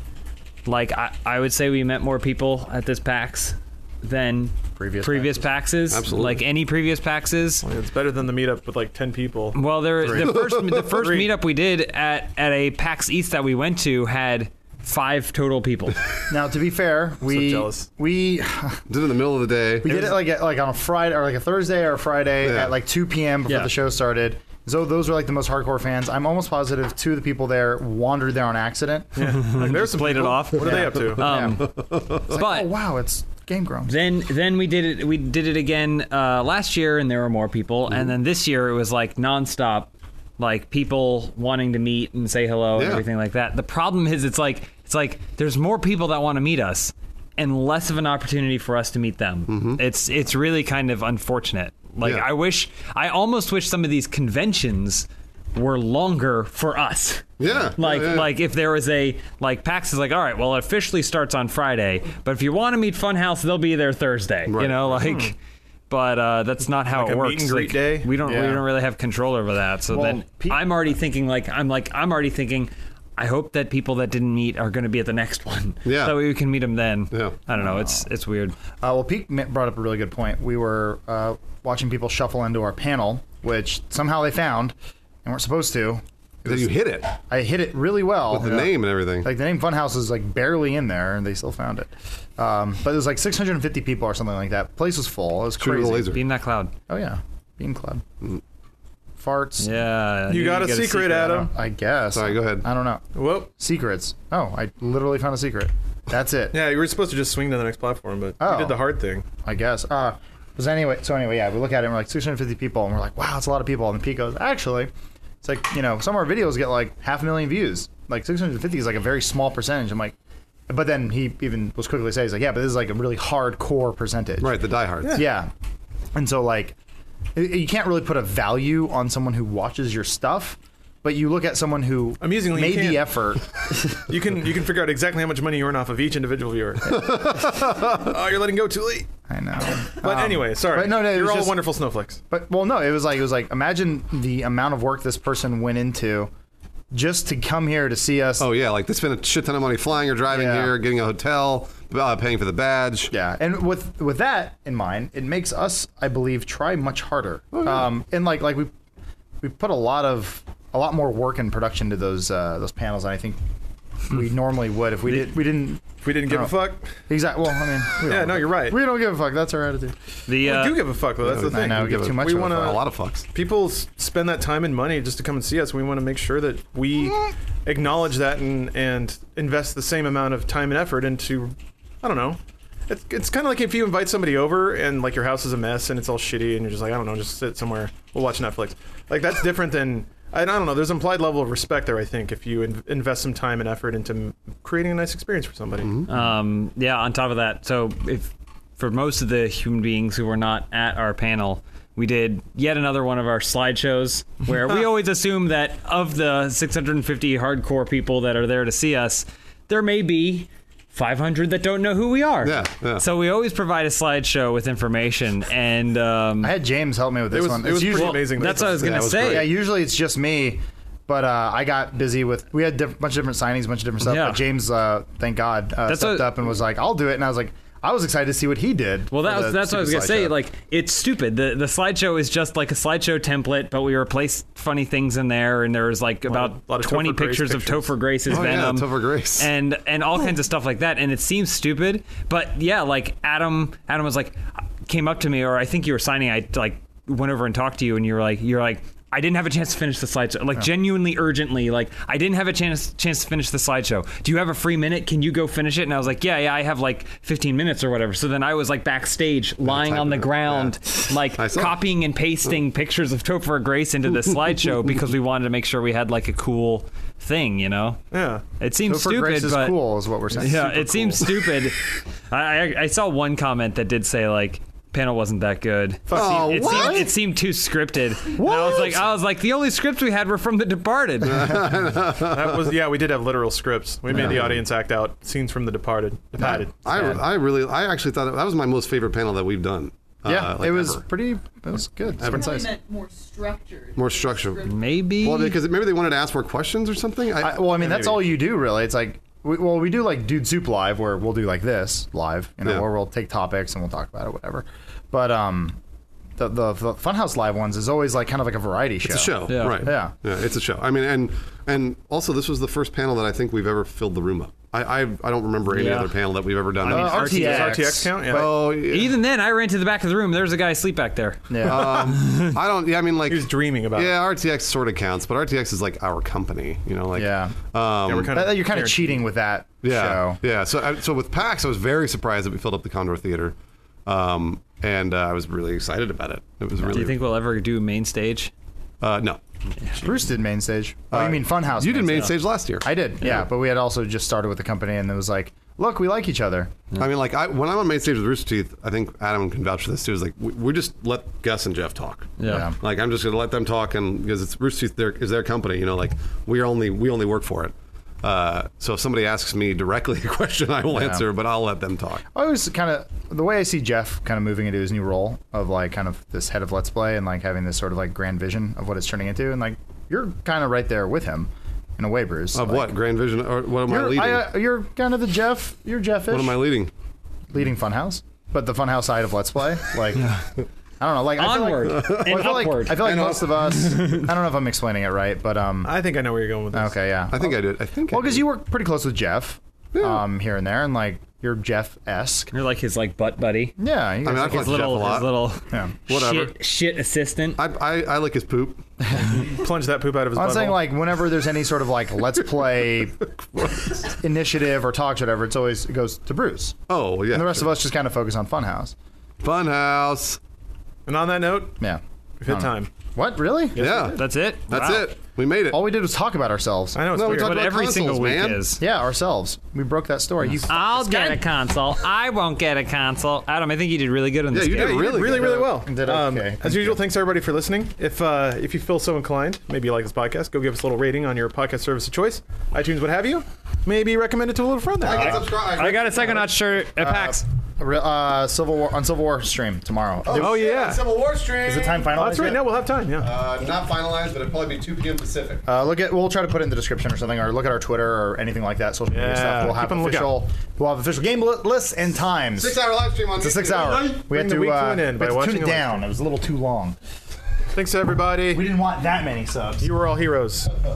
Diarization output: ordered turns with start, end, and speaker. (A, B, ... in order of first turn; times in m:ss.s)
0:00.6-0:07.6 A
0:04.8-0:05.4 B
0:05.9-0:06.4 C
0:07.6-0:10.3 D
0:09.5-0:16.0 A
0:10.0-0:11.0 C
0:10.8-0:11.3 D
0:16.3-0:18.8 B
0:17.2-0:17.9 D
0:18.9-0:20.0 C
0:19.8-0:29.1 B
0:19.9-0:20.2 A
0:22.4-0:22.8 C
0:29.1-0:31.3 D
0:29.2-0:31.7 A
0:30.6-0:33.9 B
0:31.3-0:32.3 C
0:32.3-0:32.7 A
0:33.8-1:05.4 A
0:42.7-0:43.0 C
0:49.5-0:49.8 C
0:57.4-0:58.3 C
1:04.5-1:05.1 C
1:05.0-1:05.3 D
1:05.9-1:18.6 A
1:06.9-1:08.1 D
1:08.2-1:08.6 B
1:09.9-1:10.9 B
1:15.8-1:16.2 C
1:17.6-1:18.0 B
1:18.8-1:36.2 B
1:26.4-1:27.1 C
1:28.3-1:29.3 C
1:35.6-1:36.2 C
1:36.1-1:36.7 A
1:36.9-1:38.0 B
1:39.2-1:39.7 B
1:39.6-1:41.4 A
1:40.3-1:41.5 D
1:41.2-1:43.0 B
1:42.1-1:42.6 C
1:43.1-1:43.5 D
1:43.6-1:46.6 B
1:46.5-1:49.2 D
1:48.4-1:48.8 B
1:49.4-1:54.9 B
1:55.4-2:00.1 B
2:00.7-2:04.5 B
2:04.4-2:05.2 C
2:05.0-2:05.3 D
2:05.1-2:05.5 B
2:06.1-2:06.8 B
2:07.3-2:13.4 B
2:12.2-2:13.1 D
2:13.9-2:17.1 D
2:16.8-2:18.2 C
2:17.9-2:19.1 D
2:19.3-2:21.6 B
2:20.0-2:22.2 D
2:22.3-2:26.3 B
2:26.9-2:28.4 B
2:28.4-2:33.1 C
2:30.3-2:30.7 B
2:33.1-2:38.7 B
2:37.5-2:37.9 C
2:39.4-2:43.4 B
2:44.1-2:46.5 B
2:45.1-2:46.8 D
2:47.1-2:50.0 B
2:48.0-2:48.8 D
2:50.3-2:50.8 A
2:50.4-2:52.8 D
2:51.2-2:53.2 C
2:51.3-2:52.7 B
2:53.3-3:15.9 D
3:15.8-3:16.1 C
3:16.1-3:36.5 A
3:32.4-3:33.0 C
3:36.4-3:50.4 B
3:37.3-3:39.2 D
3:37.9-3:39.5 A
3:38.7-3:39.5 C
3:44.0-3:44.4 A
3:45.9-3:46.3 A
3:49.1-4:28.0 A
3:56.3-3:57.9 D
3:58.3-3:59.5 C
4:19.6-4:21.8 C
4:28.1-4:28.4 D
4:28.6-4:29.8 A
4:28.9-4:31.3 B
4:30.4-4:41.7 A
4:36.1-4:37.0 D
4:36.1-4:37.1 C
4:36.7-4:37.0 B
4:38.4-4:38.8 B
4:38.4-4:38.9 D
4:41.2-4:42.7 C
4:42.1-4:47.0 D
4:44.1-4:44.6 C
4:46.4-4:51.0 C
4:50.2-4:52.7 B
4:52.2-4:52.6 C
4:52.2-4:54.9 E
4:54.0-4:54.6 C
4:54.6-4:55.6 A
4:55.2-4:57.9 C
4:57.4-5:05.8 B
4:57.8-4:58.3 D
5:06.4-5:10.1 B
5:09.0-5:17.4 C
5:09.5-5:09.9 A
5:15.7-5:16.1 A
5:16.8-5:18.0 A
5:16.8-5:18.5 B
5:16.9-5:18.5 D
5:18.2-5:19.1 C
5:18.8-5:22.5 A
5:21.5-5:22.0 B
5:21.6-5:28.4 C
5:23.3-5:24.1 D
5:27.1-5:27.6 B
5:28.1-5:29.2 D
5:28.3-5:30.4 B
5:29.8-5:37.2 C
5:36.8-5:38.5 A
5:39.0-5:39.4 C
5:40.0-5:46.7 B
5:41.1-5:43.4 C
5:47.0-6:02.2 C
5:52.4-5:52.7 A
5:52.4-5:52.8 B
6:00.9-6:01.2 B
6:02.3-6:12.9 B
6:12.5-6:14.5 C
6:13.9-6:16.6 B
6:16.3-6:16.9 C
6:17.5-6:20.3 B
6:20.2-6:20.4 A
6:21.0-6:25.9 B
6:21.4-6:23.2 A
6:21.8-6:23.9 C
6:24.0-6:24.2 A
6:25.8-6:27.0 D
6:26.7-6:32.5 B
6:27.3-6:28.4 C
6:29.9-6:30.2 C
6:32.5-6:33.8 A
6:33.8-6:34.9 B
6:34.2-6:35.5 C
6:34.3-6:37.6 A
6:36.1-6:36.5 C
6:37.6-6:38.8 C
6:39.1-6:39.4 B
6:39.4-6:40.8 D
6:40.4-6:46.8 B
6:46.9-6:47.7 C
6:47.3-6:48.9 B
6:49.4-6:50.4 C
6:51.0-6:51.8 D
6:51.8-6:53.8 B
6:52.4-6:52.9 D
6:53.7-6:54.2 D
6:53.8-6:55.9 C
6:54.2-6:55.1 A
6:55.7-6:57.0 B
6:56.9-6:57.6 D
6:57.1-6:58.6 C
6:57.2-6:58.8 A
6:58.8-7:01.4 B
7:00.7-7:05.1 A
7:04.5-7:05.8 C
7:04.7-7:15.4 D
7:05.3-7:07.0 B
7:15.0-7:16.4 C
7:15.1-7:16.4 B
7:15.1-7:17.4 A
7:17.0-7:20.7 B
7:20.2-7:22.2 C
7:20.3-7:21.0 D
7:21.6-7:22.6 B
7:22.1-7:23.3 D
7:23.2-7:25.6 C
7:25.6-7:37.0 B
7:29.1-7:30.3 D
7:32.5-7:34.1 C
7:33.7-7:36.1 D
7:37.7-7:38.6 D
7:38.5-7:39.9 B
7:39.8-7:40.7 D